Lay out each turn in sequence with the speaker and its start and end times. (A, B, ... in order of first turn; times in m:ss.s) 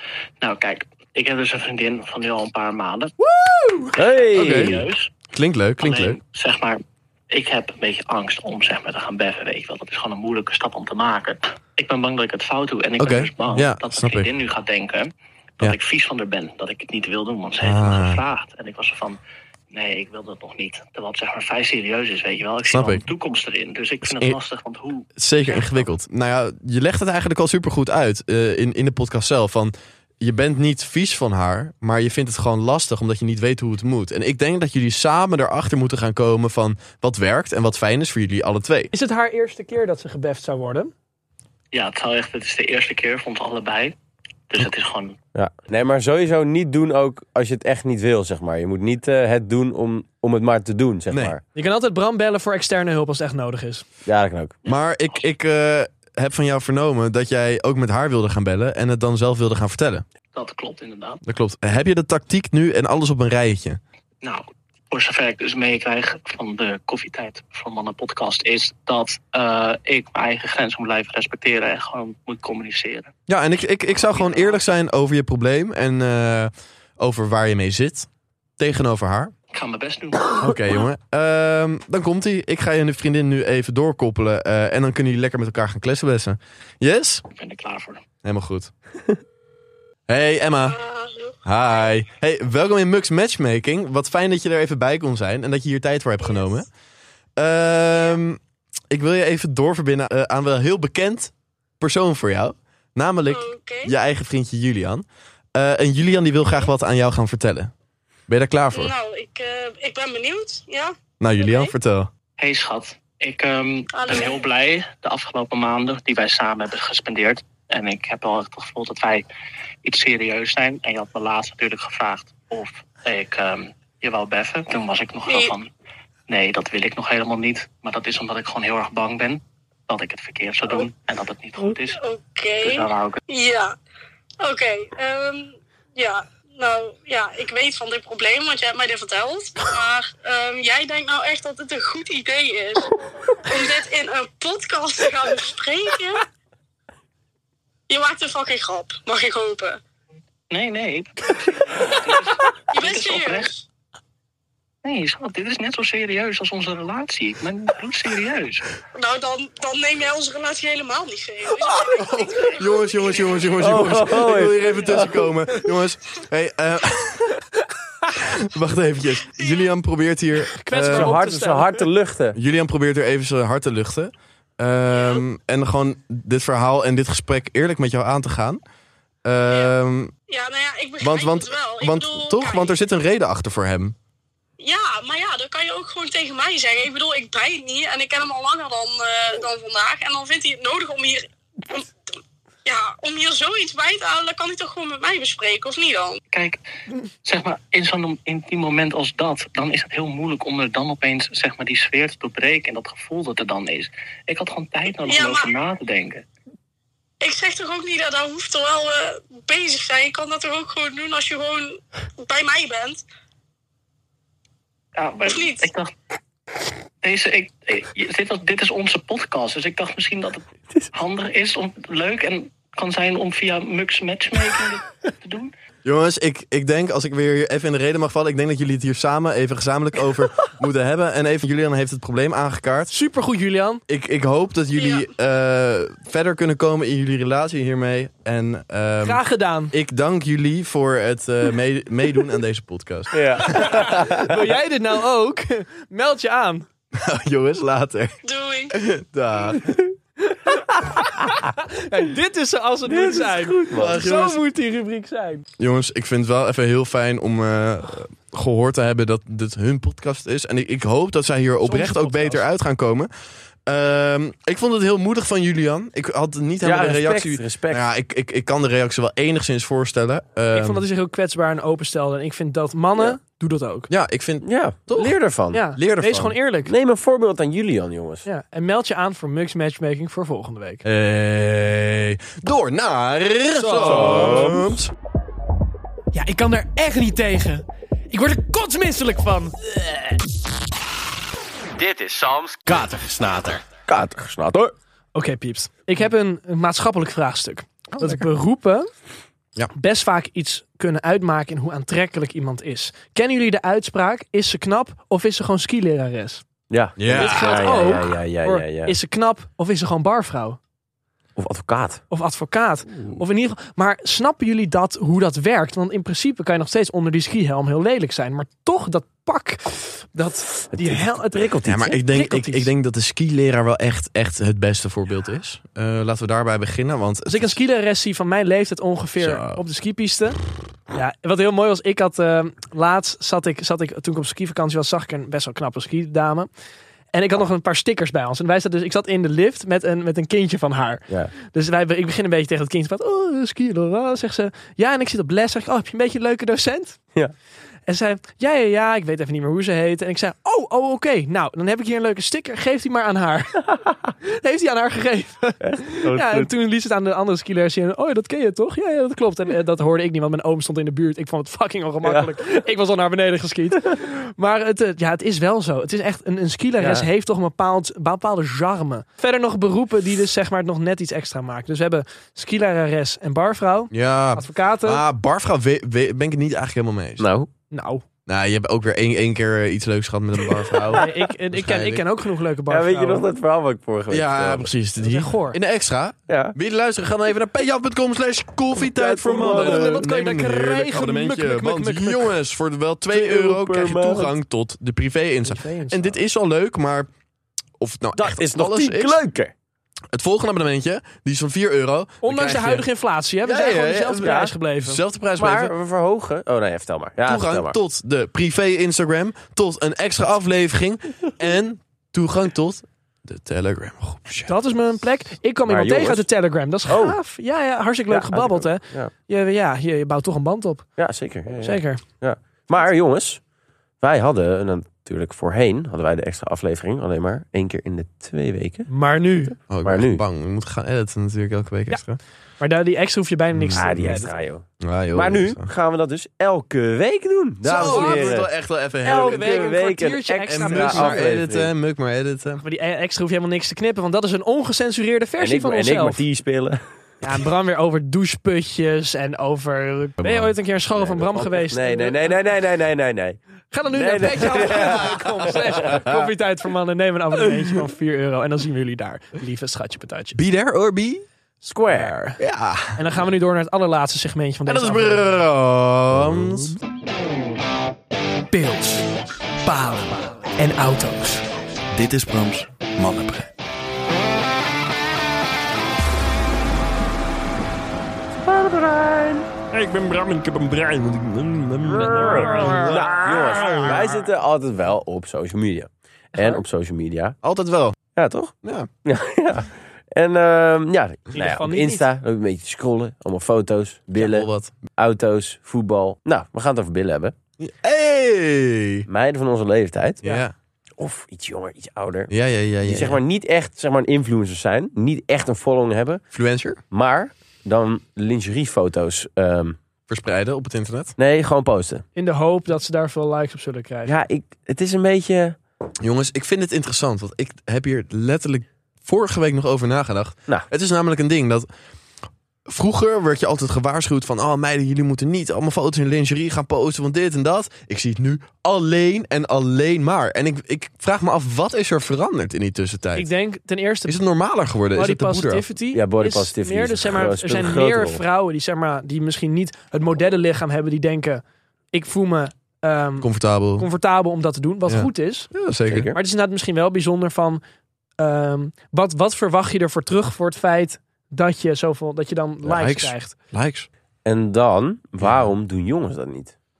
0:00.4-0:03.1 A
0:03.4-0:03.8 B
0:04.0-0:04.9 C
0:04.0-0:05.1 A
0:04.3-0:04.8 D
0:05.3-0:06.2 D
0:05.8-0:19.2 A
0:13.0-0:14.3 D
0:17.6-0:18.2 D
0:19.7-0:25.9 A
0:22.6-0:23.1 D
0:24.0-0:24.4 D
0:25.2-0:38.9 D
0:38.9-0:40.9 B
0:41.7-0:43.9 A
0:44.5-0:45.1 A
0:45.3-0:51.4 C
0:51.1-0:51.4 D
0:51.5-0:53.8 B
0:54.0-0:54.6 C
0:54.6-0:55.2 A
0:54.6-1:00.0 D
1:00.3-1:01.2 A
1:01.2-1:03.8 D
1:04.2-1:13.1 A
1:13.3-1:19.3 D
1:14.1-1:14.6 A
1:19.5-1:20.5 A
1:20.4-1:27.2 D
1:27.3-1:28.0 A
1:28.2-1:28.7 D
1:30.1-1:30.8 D
1:30.7-1:31.4 E
1:31.4-1:36.7 D
1:36.2-1:36.6 E
1:37.4-1:47.7 D
1:43.3-1:43.9 E
1:48.3-1:48.9 D
1:48.7-1:51.7 E
1:51.2-1:52.1 D
1:52.4-1:59.2 A
1:53.9-1:54.4 E
1:59.8-2:05.7 A
2:05.3-2:05.5 E
2:06.3-2:12.0 A
2:11.6-2:13.7 E
2:12.6-2:13.2 A
2:14.4-2:26.3 E
2:27.9-2:29.8 E
2:30.5-2:33.5 A
2:32.1-2:33.6 E
2:34.8-2:38.6 A
2:38.9-2:43.9 E
2:41.9-2:47.4 D
2:43.6-2:45.3 C
2:48.1-2:51.2 D
2:50.6-2:51.9 B
2:50.8-2:52.4 C
2:52.3-2:58.6 D
2:54.9-2:55.2 E
2:59.2-3:00.1 D
3:00.3-3:02.7 E
3:01.0-3:03.9 D
3:04.6-3:11.9 E
3:12.6-3:16.2 E
3:16.3-3:16.6 A
3:17.2-3:26.2 A
3:25.1-3:25.5 E
3:27.2-3:33.0 E
3:35.0-3:35.9 A
3:35.2-3:35.7 E
3:37.0-3:45.5 A
3:45.8-3:52.9 D
3:52.9-3:53.8 B
3:53.9-3:59.2 D
3:54.8-3:55.1 E
3:59.0-3:59.7 B
3:59.7-4:04.1 D
4:03.1-4:04.4 C
4:03.4-4:06.6 B
4:07.0-4:08.2 D
4:08.2-4:08.7 E
4:08.7-4:09.8 D
4:10.3-4:15.4 B
4:12.8-4:14.0 C
4:13.8-4:14.4 D
4:15.6-4:23.1 D
4:21.6-4:22.4 B
4:23.6-4:30.8 D
4:26.6-4:27.8 C
4:30.5-4:33.9 B
4:33.9-4:35.2 D
4:34.4-4:35.6 C
4:35.5-4:36.7 B
4:35.7-4:36.3 D
4:36.6-4:38.2 C
4:38.2-4:40.8 B
4:40.8-4:44.9 D
4:43.6-4:44.6 B
4:43.8-4:44.7 C
4:46.1-4:49.6 B
4:51.7-4:54.7 C
4:55.1-4:58.9 B
4:57.9-4:58.3 D
4:59.7-5:06.4 B
5:06.7-5:09.0 C
5:07.0-5:07.7 D
5:07.1-5:10.6 B
5:11.4-5:12.0 C
5:12.1-5:22.7 B
5:12.9-5:13.2 D
5:20.7-5:21.9 C
5:21.6-5:27.5 D
5:27.3-5:30.4 B
5:29.2-5:29.6 D
5:30.9-5:36.5 B
5:37.1-5:47.0 B
5:41.1-5:41.3 C
5:47.9-6:15.0 B
5:55.6-5:56.5 C
6:02.0-6:02.4 C
6:06.8-6:07.1 C
6:13.9-6:17.3 D
6:17.2-6:17.5 C
6:17.7-6:18.0 B
6:18.3-6:22.0 D
6:20.9-6:23.2 B
6:22.7-6:24.7 C
6:24.1-6:37.1 D
6:25.0-6:25.6 B
6:26.3-6:26.6 C
6:28.8-6:30.0 C
6:29.4-6:32.4 B
6:33.1-6:34.3 C
6:35.4-6:36.2 B
6:37.8-6:39.2 D
6:38.2-6:39.5 C
6:40.1-6:42.8 D
6:42.2-6:45.0 B
6:43.4-6:45.7 D
6:44.1-6:44.6 C
6:45.4-6:47.8 C
6:47.2-6:54.5 D
6:54.5-7:01.0 B
6:55.7-6:56.2 C
6:56.9-6:57.2 C
6:58.1-6:59.1 C
7:01.0-7:03.4 C
7:01.6-7:02.0 B
7:04.0-7:08.9 C
7:08.9-7:09.6 B
7:09.5-7:10.2 C
7:09.7-7:12.2 D
7:12.6-7:14.3 B
7:13.5-7:14.2 D
7:13.7-7:18.5 C
7:14.8-7:15.7 D
7:17.6-7:19.6 D
7:17.8-7:18.4 B
7:19.0-7:21.7 C
7:19.0-7:21.3 B
7:20.5-7:22.6 D
7:22.6-7:26.2 B
7:25.4-7:26.8 C
7:27.2-7:32.4 B
7:30.2-7:30.5 D
7:30.9-7:36.0 C
7:33.7-7:40.4 B
7:34.6-7:36.3 D
7:40.3-7:41.2 D
7:41.6-7:42.1 C
7:41.9-7:42.4 B
7:42.4-7:43.0 D
7:43.0-7:45.4 B
7:44.7-7:46.8 D
7:48.5-7:51.5 B
7:51.9-7:53.5 D
7:58.3-7:59.5 C
7:59.7-8:03.9 D
8:01.9-8:07.4 C
8:02.2-8:04.0 B
8:06.3-8:06.6 B
8:07.4-8:08.0 D
8:08.1-8:08.5 C
8:08.6-8:08.9 D
8:09.0-8:17.3 C
8:11.3-8:12.1 B
8:14.2-8:14.8 D
8:17.6-8:19.1 D
8:19.1-8:20.2 C
8:20.2-8:20.5 D
8:21.0-8:22.3 C
8:22.3-8:23.2 D
8:22.8-8:26.2 C
8:26.3-8:26.8 D
8:26.9-8:29.8 C
8:30.1-8:31.1 D
8:31.2-8:32.0 C
8:32.2-8:34.1 B
8:34.0-8:35.6 C
8:36.0-8:41.7 D
8:42.7-8:53.3 D
8:53.2-8:54.2 B
8:54.0-8:55.6 D
8:54.9-9:01.4 B
8:55.9-8:58.2 C
9:01.9-9:05.5 B
9:03.2-9:03.9 D
9:04.8-9:06.1 D
9:05.9-9:06.2 C
9:06.1-9:07.6 B
9:08.2-9:13.3 B
9:12.6-9:13.9 D
9:14.2-9:16.5 C
9:15.2-9:15.5 D